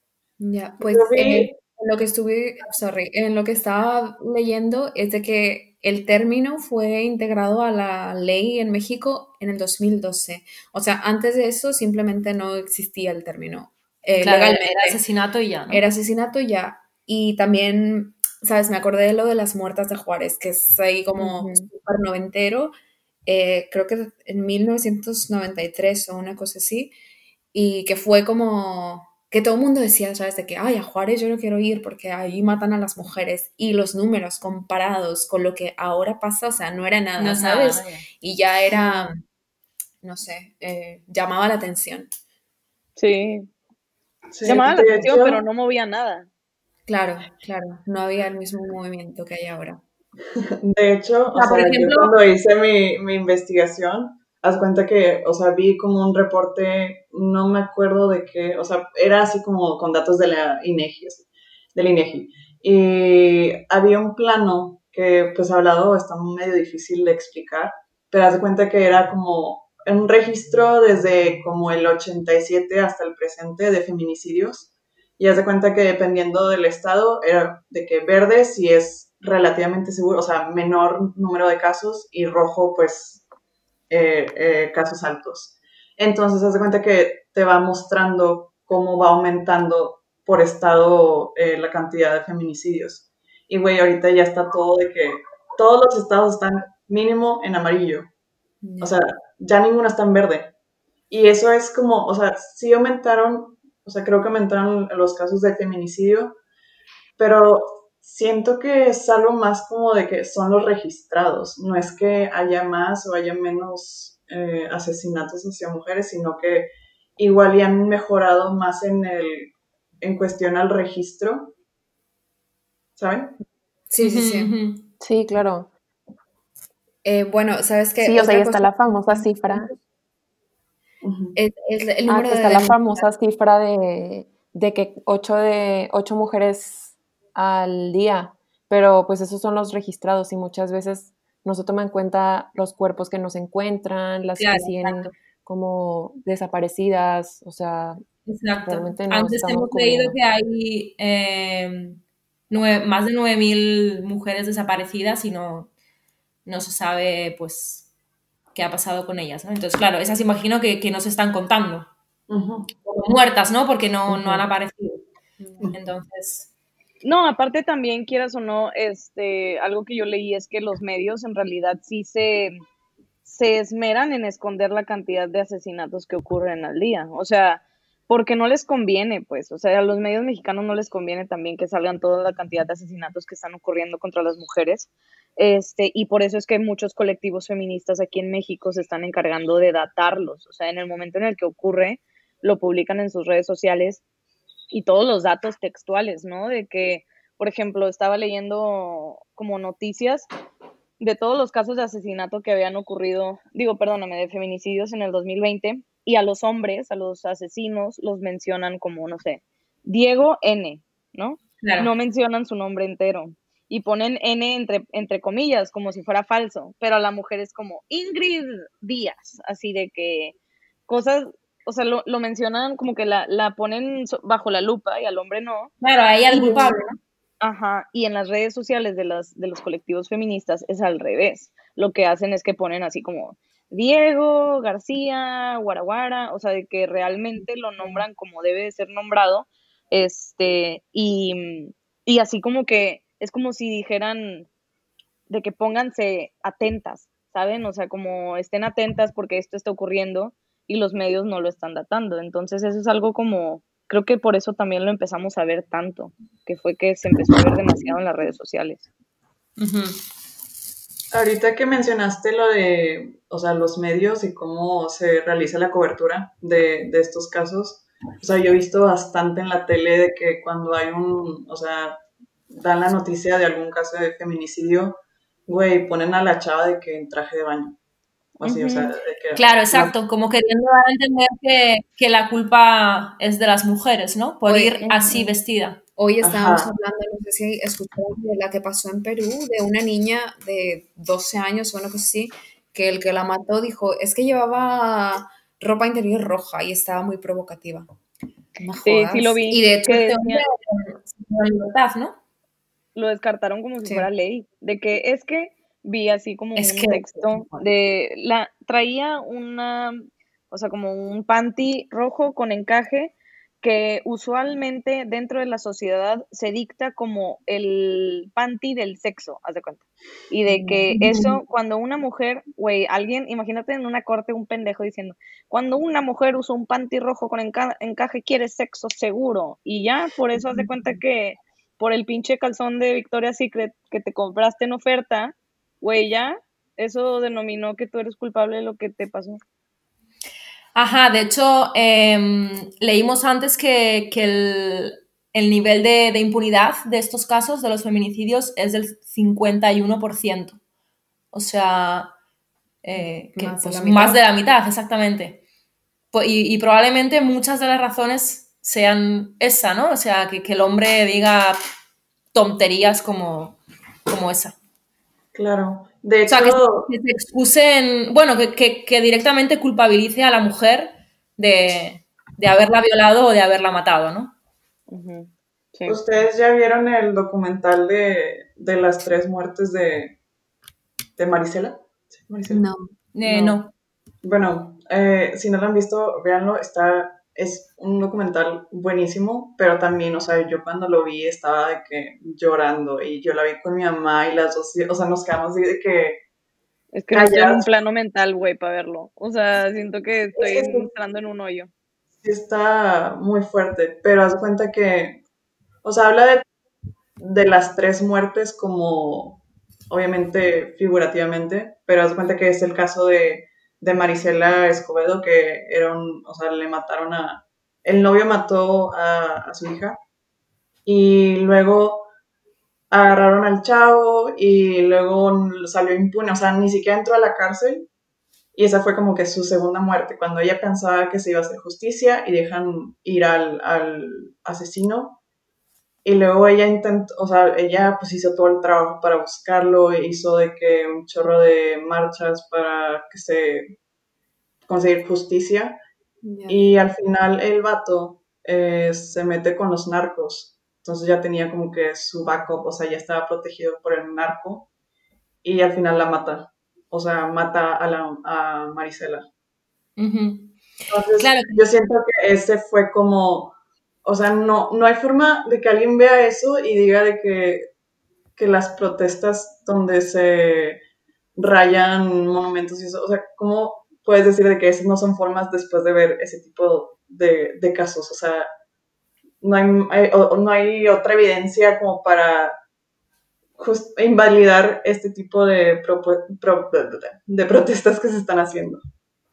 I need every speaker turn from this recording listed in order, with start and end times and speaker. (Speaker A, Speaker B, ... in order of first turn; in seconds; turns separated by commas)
Speaker A: 0.4-15.0, Speaker B: 0.8-1.6, Speaker C: 14.2-15.8, Speaker A: 15.7-22.7, Speaker D: 21.2-21.7, Speaker A: 23.3-26.9, Speaker A: 27.5-39.2, Speaker C: 37.2-38.0, Speaker A: 40.0-42.1, Speaker D: 43.0-43.5, Speaker B: 44.3-45.4, Speaker D: 44.5-46.3, Speaker A: 46.9-49.8, Speaker B: 50.6-83.2, Speaker C: 51.4-52.0, Speaker A: 51.4-52.1, Speaker B: 83.9-98.1, Speaker A: 98.6-99.0, Speaker B: 98.8-100.5, Speaker B: 101.1-106.4, Speaker B: 107.2-121.5, Speaker B: 123.0-123.3, Speaker A: 123.9-124.6, Speaker C: 124.0-124.9, Speaker E: 125.0-125.7, Speaker A: 127.0-129.8, Speaker E: 128.0-129.7, Speaker B: 131.0-131.4, Speaker A: 131.3-133.1, Speaker E: 132.1-148.0, Speaker C: 144.4-145.1, Speaker C: 148.3-155.7, Speaker E: 148.6-150.2, Speaker C: 156.5-157.9, Speaker C: 158.6-161.9, Speaker B: 162.3-162.7, Speaker C: 162.8-165.0, Speaker B: 164.1-164.4, Speaker A: 165.4-165.7, Speaker C: 165.7-166.5, Speaker D: 167.0-172.6, Speaker D: 173.2-194.0, Speaker D: 194.7-200.3, Speaker D: 201.0-220.3, Speaker C: 211.6-211.9, Speaker D: 220.9-225.7, Speaker C: 225.8-226.9, Speaker A: 226.3-226.8, Speaker D: 227.4-244.5, Speaker D: 245.3-258.9, Speaker C: 259.6-260.0, Speaker B: 261.1-272.0, Speaker B: 272.5-277.8, Speaker B: 278.4-279.9, Speaker D: 278.4-278.9, Speaker C: 279.3-285.8, Speaker A: 284.5-285.4, Speaker A: 286.0-297.9, Speaker B: 286.2-286.7, Speaker A: 298.6-300.4, Speaker D: 298.8-300.4, Speaker C: 299.9-302.2, Speaker D: 302.9-339.4, Speaker C: 306.6-307.2, Speaker A: 320.5-320.9, Speaker C: 320.9-321.2, Speaker C: 340.8-350.6, Speaker C: 351.3-352.1, Speaker C: 352.8-355.4, Speaker A: 352.9-354.2, Speaker C: 356.1-361.6, Speaker C: 362.3-364.6, Speaker B: 365.3-366.9, Speaker C: 366.3-374.3, Speaker D: 374.9-376.0, Speaker B: 375.9-380.2, Speaker B: 381.2-382.6, Speaker A: 382.5-383.6, Speaker C: 383.1-383.7, Speaker B: 384.2-396.2, Speaker D: 396.9-401.7, Speaker B: 397.1-397.7, Speaker B: 400.4-400.9, Speaker B: 402.2-405.2, Speaker B: 405.8-406.4, Speaker B: 407.2-420.0, Speaker B: 420.9-422.1, Speaker B: 422.9-427.9, Speaker B: 428.6-435.2, Speaker B: 436.0-443.8, Speaker B: 444.7-445.8, Speaker A: 446.2-446.6, Speaker B: 446.5-454.7, Speaker B: 455.4-459.3, Speaker C: 460.0-460.6, Speaker B: 460.9-463.5, Speaker C: 461.2-461.6, Speaker B: 464.1-467.7, Speaker B: 468.4-470.8, Speaker B: 471.4-478.5, Speaker B: 479.4-482.6, Speaker B: 483.6-488.8